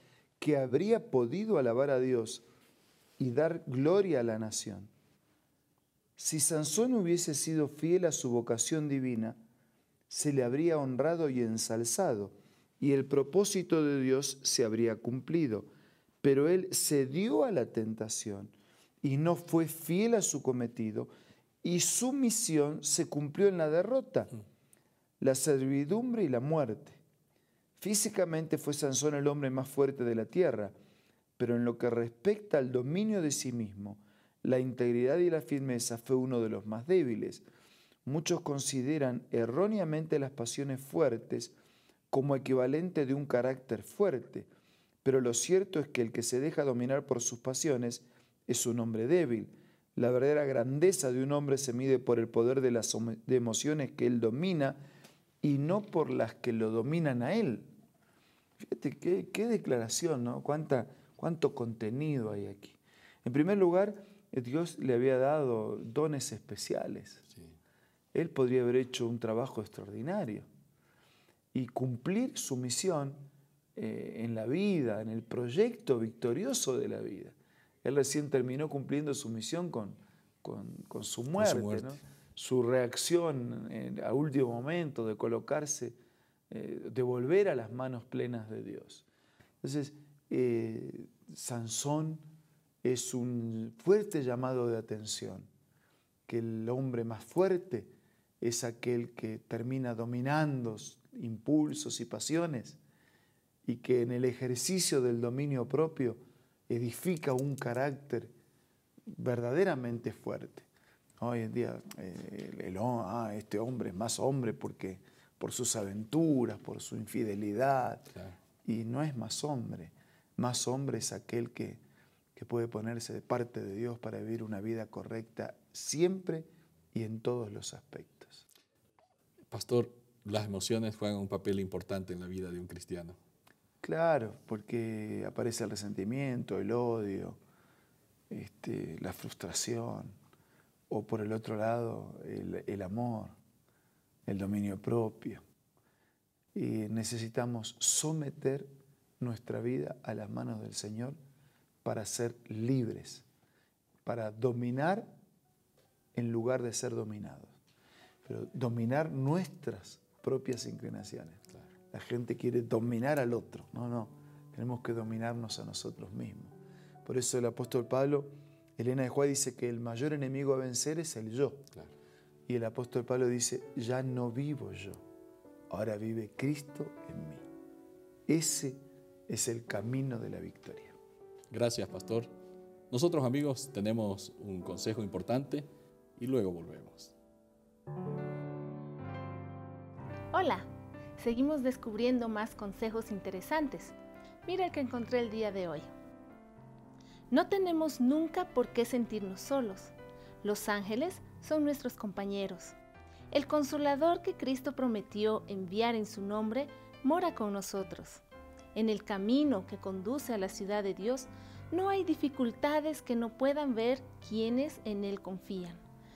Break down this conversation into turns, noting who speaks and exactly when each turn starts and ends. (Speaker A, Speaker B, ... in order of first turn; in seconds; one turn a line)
Speaker A: 0.4-2.5
Speaker A: 3.2-4.9
Speaker A: 6.2-9.4
Speaker A: 10.1-15.7
Speaker A: 16.2-21.1
Speaker A: 21.6-24.3
Speaker A: 25.2-27.0
Speaker A: 27.8-30.7
Speaker A: 31.4-37.5
Speaker A: 38.1-41.5
Speaker A: 42.1-44.5
Speaker A: 45.0-54.8
Speaker A: 55.4-57.7
Speaker A: 58.6-67.2
Speaker A: 68.1-70.5
Speaker A: 71.5-86.0
Speaker B: 81.3-82.0
Speaker A: 86.5-89.1
Speaker A: 89.6-92.2
Speaker A: 92.8-95.5
Speaker A: 96.3-102.8
Speaker A: 103.7-106.2
Speaker A: 106.7-108.3
Speaker A: 109.1-110.7
Speaker A: 111.2-118.1
Speaker B: 118.1-118.4
Speaker A: 118.6-121.8
Speaker A: 122.4-128.4
Speaker B: 129.5-133.2
Speaker A: 133.8-137.4
Speaker A: 138.3-140.2
Speaker A: 140.9-143.3
Speaker A: 144.3-145.4
Speaker A: 146.5-148.7
Speaker A: 149.2-151.2
Speaker A: 151.8-153.2
Speaker A: 154.1-155.2
Speaker A: 156.1-157.6
Speaker A: 158.2-166.5
Speaker A: 167.1-171.7
Speaker A: 172.5-175.0
Speaker A: 175.7-177.4
Speaker A: 178.3-181.0
Speaker B: 181.5-182.3
Speaker B: 182.9-187.1
Speaker C: 190.3-193.9
Speaker C: 194.5-195.9
Speaker C: 197.3-202.8
Speaker C: 203.3-208.2
Speaker C: 208.8-215.8